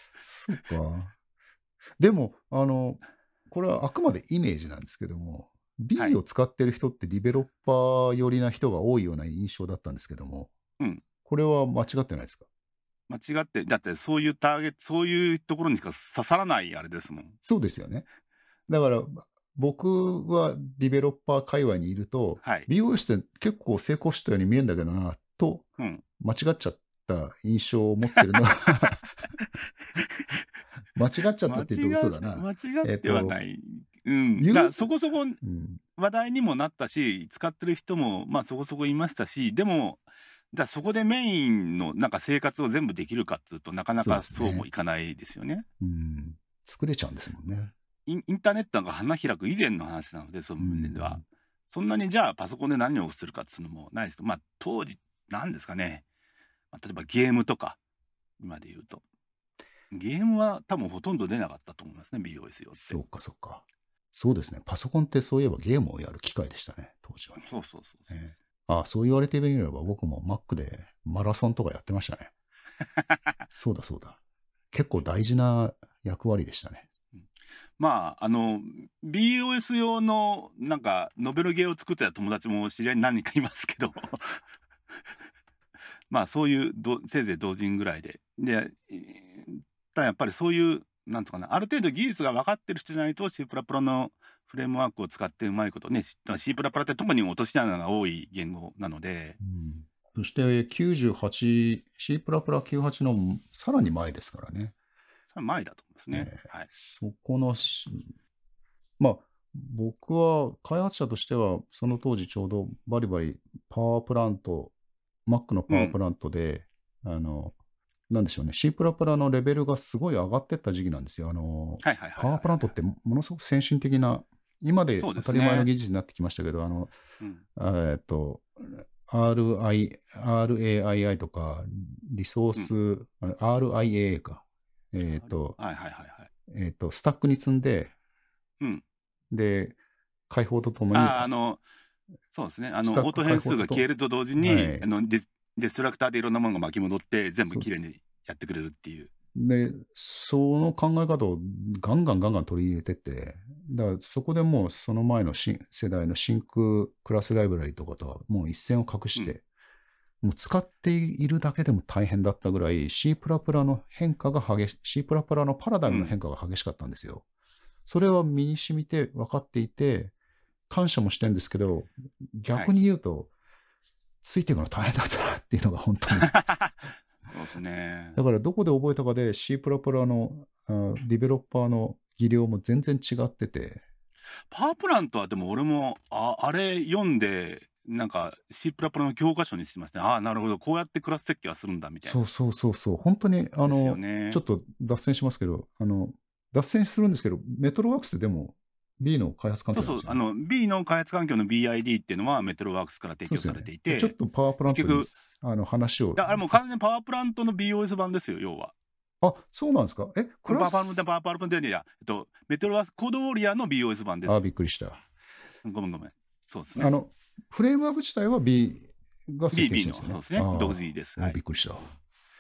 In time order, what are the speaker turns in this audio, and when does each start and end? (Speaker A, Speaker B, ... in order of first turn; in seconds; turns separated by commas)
Speaker A: 0.2-1.1, Speaker A: 2.0-10.5, Speaker B: 10.8-11.0, Speaker A: 11.2-12.5, Speaker B: 13.1-17.4, Speaker A: 17.4-18.1, Speaker A: 18.7-25.7, Speaker B: 22.4-22.7, Speaker B: 25.8-26.0, Speaker A: 26.2-29.2, Speaker B: 29.9-30.4, Speaker A: 30.9-33.4, Speaker B: 31.5-35.4, Speaker A: 34.4-35.8, Speaker B: 36.0-45.7, Speaker A: 44.0-44.7, Speaker A: 45.8-47.7, Speaker B: 48.1-56.0, Speaker A: 50.6-51.2, Speaker B: 56.7-57.8, Speaker B: 58.4-59.0, Speaker B: 59.9-63.0, Speaker A: 62.7-67.4, Speaker B: 67.4-68.1, Speaker A: 68.1-72.3, Speaker B: 72.8-73.3, Speaker A: 73.5-74.2, Speaker A: 74.7-76.9, Speaker B: 77.2-84.4, Speaker B: 86.1-99.4, Speaker A: 99.4-104.8, Speaker B: 105.3-106.7, Speaker A: 106.1-108.1, Speaker A: 109.0-114.7, Speaker A: 115.3-117.5, Speaker B: 115.7-116.0, Speaker A: 118.1-126.9, Speaker B: 121.8-122.7, Speaker B: 125.0-125.7, Speaker A: 127.5-135.6, Speaker B: 135.2-136.3, Speaker A: 136.5-137.9, Speaker A: 139.3-139.8, Speaker A: 140.3-141.3, Speaker B: 140.9-141.6, Speaker B: 142.3-149.1, Speaker A: 142.8-143.8, Speaker A: 144.4-144.8, Speaker A: 147.5-147.8, Speaker A: 149.3-159.4, Speaker A: 160.2-167.2, Speaker B: 165.9-166.1, Speaker A: 167.9-170.1, Speaker A: 170.7-173.3, Speaker A: 174.2-176.4, Speaker B: 176.3-176.7, Speaker B: 177.3-178.2, Speaker A: 178.2-183.8, Speaker B: 184.5-192.2, Speaker A: 192.0-200.2, Speaker B: 193.6-194.4, Speaker B: 199.7-204.1, Speaker A: 203.3-206.6, Speaker B: 204.7-205.1, Speaker B: 206.2-208.7, Speaker A: 209.2-211.0, Speaker B: 210.5-214.4, Speaker A: 214.2-215.0, Speaker B: 215.6-216.9, Speaker A: 216.8-221.9, Speaker B: 219.5-221.4